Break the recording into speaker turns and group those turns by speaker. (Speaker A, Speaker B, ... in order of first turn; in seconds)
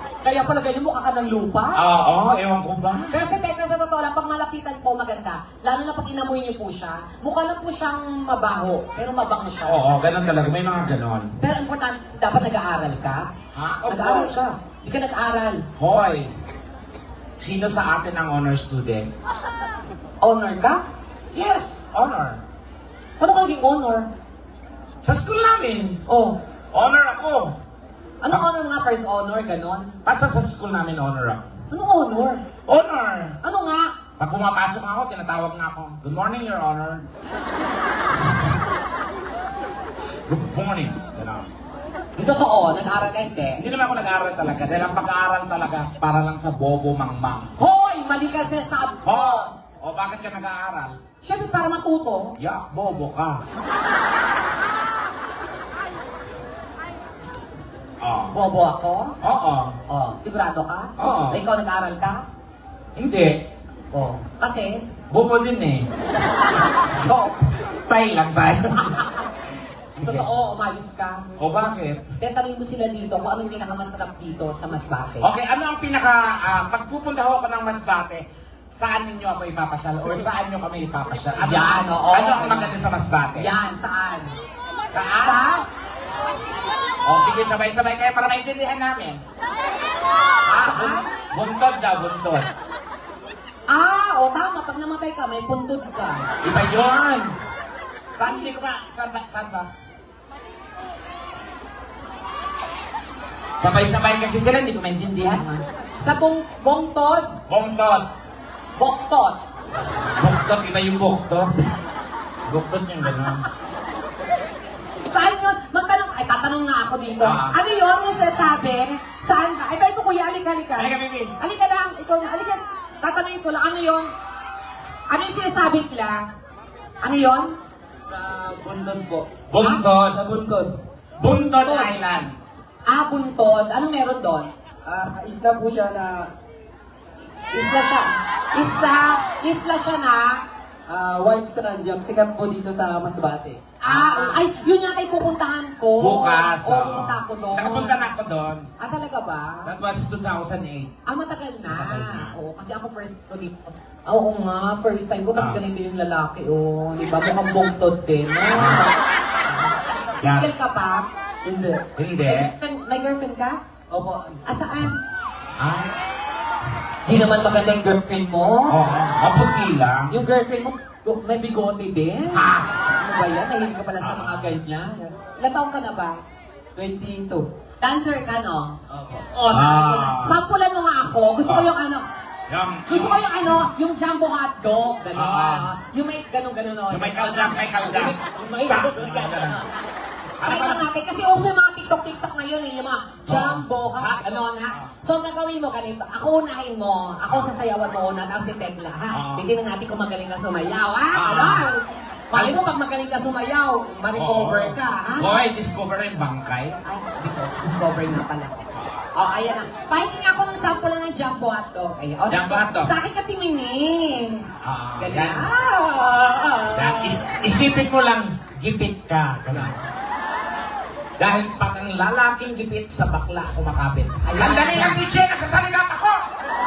Speaker A: 0.2-1.8, 3.1-9.8, 11.4-13.3, 13.9-15.6, 20.2-20.8, 23.2-24.1, 26.1-26.4, 28.2-29.9, 31.7-32.4, 33.4-33.9, 42.2-43.6, 47.6-49.5, 51.2-52.3, 58.3-59.1, 59.9-62.2, 63.9-64.8, 66.9-67.5, 70.0-71.3, 72.2-75.3, 81.4-82.7, 83.3-84.3, 85.2-85.7, 90.5-91.1, 93.7-96.3, 105.2-107.4, 108.8-109.4, 115.0-124.1, 125.1-126.2, 127.0-127.5, 131.2-131.9, 132.9-134.5, 137.5-140.4, 143.8-148.0, 148.8-149.7, 151.1-158.9, 160.2-161.1, 162.2-163.6, 164.4-165.0, 167.0-168.8, 170.1-176.2, 177.8-178.8, 179.3-182.0, 182.9-189.6, 190.4-205.4, 206.8-214.4, 215.0-217.2, 224.2-225.0
Speaker B: 1.7-3.2, 9.6-11.3, 13.5-14.4, 15.8-16.3, 17.4-19.1, 21.3-22.4, 25.0-26.0, 26.7-27.6, 30.0-31.5, 32.7-33.4, 34.2-37.0, 40.3-41.5, 43.6-47.5, 49.0-51.0, 52.4-53.4, 58.0-58.4, 59.2-59.7, 61.0-61.4, 63.0-63.4, 65.1-65.9, 67.7-69.0, 70.0-70.3, 71.4-72.0, 75.2-83.5, 84.9-85.4, 87.0-89.2, 90.4-92.5, 96.4-97.3, 98.1-99.7, 103.6-105.4, 107.5-108.1, 110.1-111.7, 112.5-113.5, 117.2-117.6, 120.8-121.3, 129.5-130.2, 131.2-132.3, 143.8-144.4, 146.0-148.7, 149.6-150.9, 151.7-152.3, 155.3-155.6, 158.5-158.8, 160.2-160.5, 161.9-162.5, 165.6-165.9, 168.7-170.1, 172.3-172.7, 174.0-174.6, 179.4-180.4, 181.4-181.7, 182.5-183.6, 185.1-185.7, 186.9-189.7, 190.4-190.8, 193.2-194.9, 199.1-199.4, 201.1-201.8, 204.1-206.8, 208.7-209.1, 212.3-212.9, 214.6-215.5, 216.7-219.8, 221.2-226.2
Speaker C: 128.1-129.3, 130.1-130.8, 134.8-136.3, 140.9-143.7, 161.4-161.9, 163.9-164.4, 176.7-177.5, 178.9-179.2